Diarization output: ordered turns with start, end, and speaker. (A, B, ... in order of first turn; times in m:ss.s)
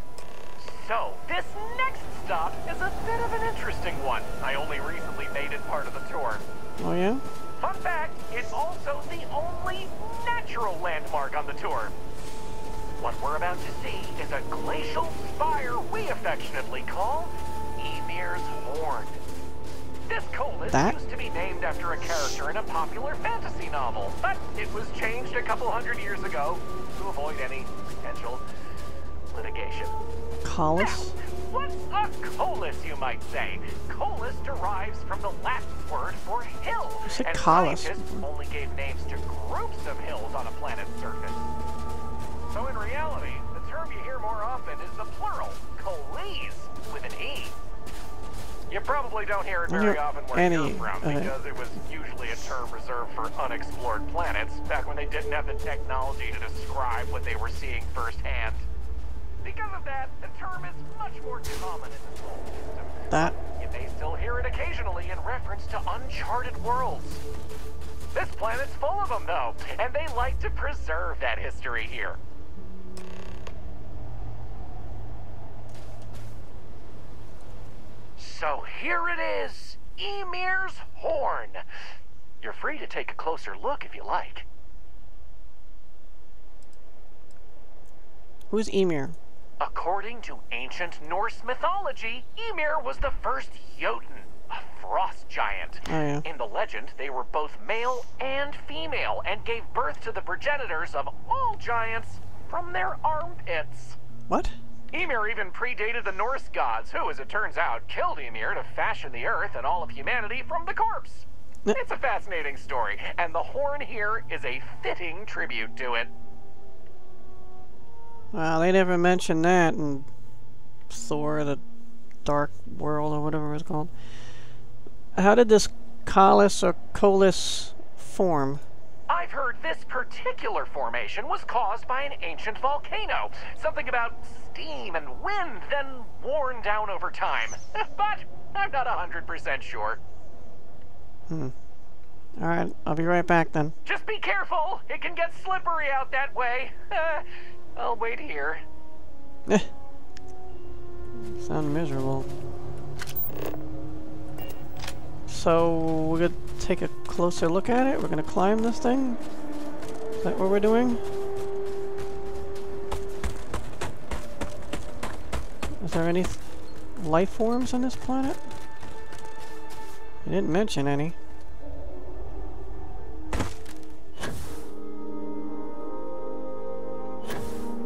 0:00.6-0:06.4 A
0:06.8-0:07.2 B
0:07.6-0:11.9 A
0:13.0-0:19.2 A
0:20.1-0:28.4 A
0:20.7-0:21.0 B
0:29.3-0:30.0 A
0:30.4-0:31.1 B
0:30.8-0:41.5 A
0:37.0-0:38.2 B
0:42.5-0:47.5 A
0:48.7-0:58.7 A
0:49.7-0:51.3 B
0:59.4-1:07.2 A
1:03.1-1:03.4 B
1:08.1-1:12.2 A
1:18.2-1:21.6 A
1:22.4-1:24.4 A
1:28.5-1:29.2 B
1:29.6-1:44.0 A
1:35.9-1:36.2 B
1:44.3-1:44.5 B
1:44.9-1:56.1 A
1:58.3-2:00.1 B
2:00.9-2:01.6 B
2:02.2-2:03.9 B
2:05.1-2:08.6 B
2:09.1-2:20.0 A
2:21.3-2:21.5 B
2:22.4-2:23.7 B
2:23.8-2:28.6 A
2:31.2-2:32.3 B
2:35.3-2:39.2 B
2:40.2-2:41.0 B
2:45.8-2:46.4 B
2:47.0-2:48.4 B
2:50.2-2:51.2 B